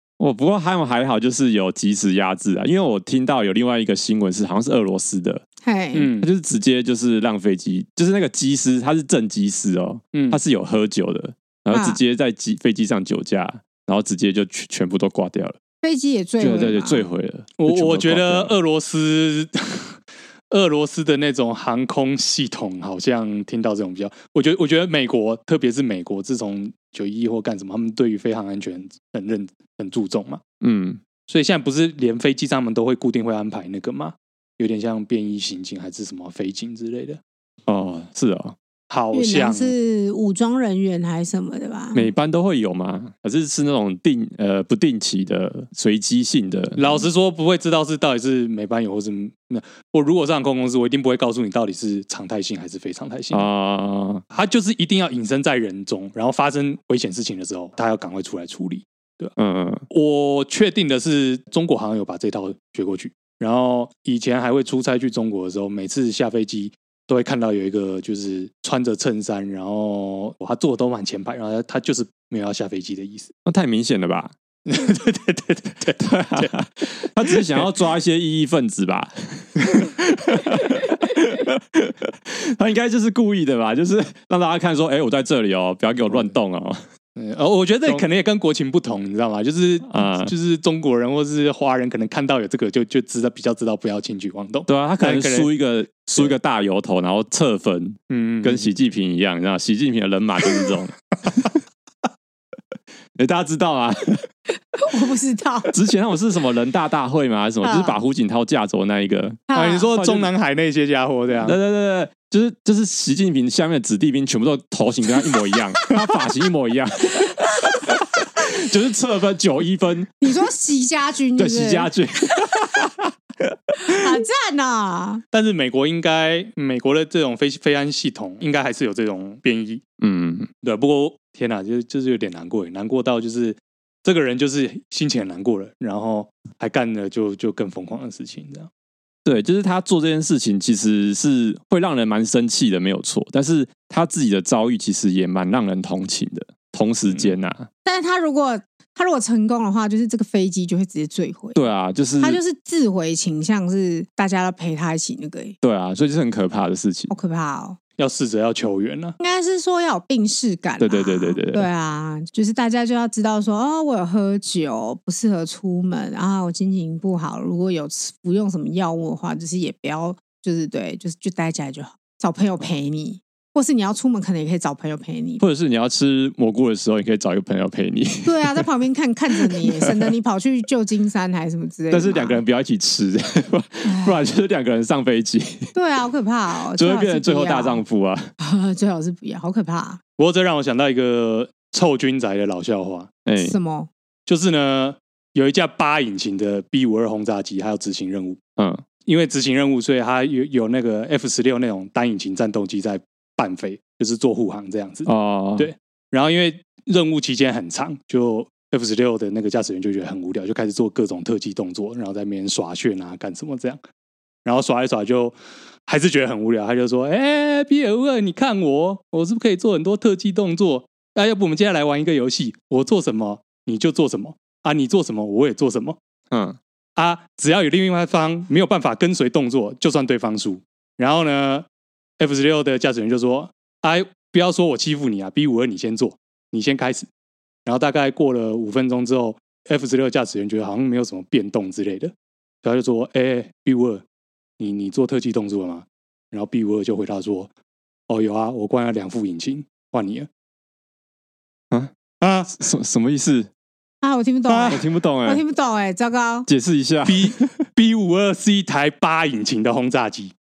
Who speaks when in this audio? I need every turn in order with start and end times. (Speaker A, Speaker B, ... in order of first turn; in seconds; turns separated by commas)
Speaker A: 0.2-5.4, Speaker B: 5.6-6.1, Speaker C: 5.9-6.3, Speaker A: 6.2-15.6, Speaker C: 10.1-10.4, Speaker B: 11.7-12.0, Speaker B: 15.8-17.1, Speaker A: 16.4-18.5, Speaker C: 17.6-19.9, Speaker C: 20.5-30.4, Speaker A: 30.6-31.0, Speaker C: 31.3-37.2, Speaker A: 37.7-38.5, Speaker C: 38.9-39.7, Speaker B: 39.1-42.1, Speaker A: 41.9-46.8, Speaker C: 46.8-53.5, Speaker A: 53.3-54.2, Speaker C: 54.3-59.3, Speaker A: 59.4-59.8, Speaker C: 59.9-73.3, Speaker A: 73.5-74.3, Speaker C: 74.7-76.5, Speaker A: 76.0-86.8, Speaker C: 86.0-86.3, Speaker C: 87.2-95.5, Speaker A: 89.9-90.3, Speaker A: 94.7-101.5, Speaker C: 98.1-98.7, Speaker A: 103.2-104.2, Speaker B: 104.7-105.7, Speaker A: 105.7-110.3, Speaker B: 107.6-108.0, Speaker B: 109.5-109.9, Speaker C: 109.5-111.6, Speaker A: 111.4-120.1, Speaker B: 117.2-117.8, Speaker B: 120.2-122.7, Speaker A: 121.4-124.2, Speaker B: 123.8-125.2, Speaker C: 125.3-129.8, Speaker A: 130.0-130.5, Speaker C: 130.6-138.7, Speaker A: 139.2-147.7, Speaker B: 147.8-151.6, Speaker A: 151.5-152.4, Speaker B: 152.2-155.6, Speaker A: 155.6-157.1, Speaker B: 157.1-157.8, Speaker C: 158.0-159.2, Speaker B: 159.2-175.4, Speaker A: 160.8-161.7, Speaker A: 175.4-178.6, Speaker B: 178.2-182.4, Speaker A: 179.3-180.1, Speaker A: 181.9-185.7, Speaker B: 183.8-184.2, Speaker B: 185.7-187.8, Speaker A: 186.7-188.3, Speaker B: 188.4-190.0, Speaker C: 190.2-193.1, Speaker A: 193.2-193.6, Speaker B: 193.4-193.9, Speaker C: 194.2-198.4, Speaker A: 198.6-198.8, Speaker C: 199.1-213.8, Speaker A: 205.1-205.7, Speaker C: 214.4-226.0, Speaker A: 226.3-226.6, Speaker C: 226.9-231.7, Speaker C: 232.2-237.1, Speaker C: 237.7-244.0, Speaker C: 244.6-247.5, Speaker C: 248.1-250.3, Speaker C: 252.2-252.5, Speaker A: 252.5-253.5, Speaker B: 254.0-256.5, Speaker C: 254.5-254.8, Speaker A: 254.7-255.4, Speaker A: 256.5-257.5, Speaker C: 257.1-260.3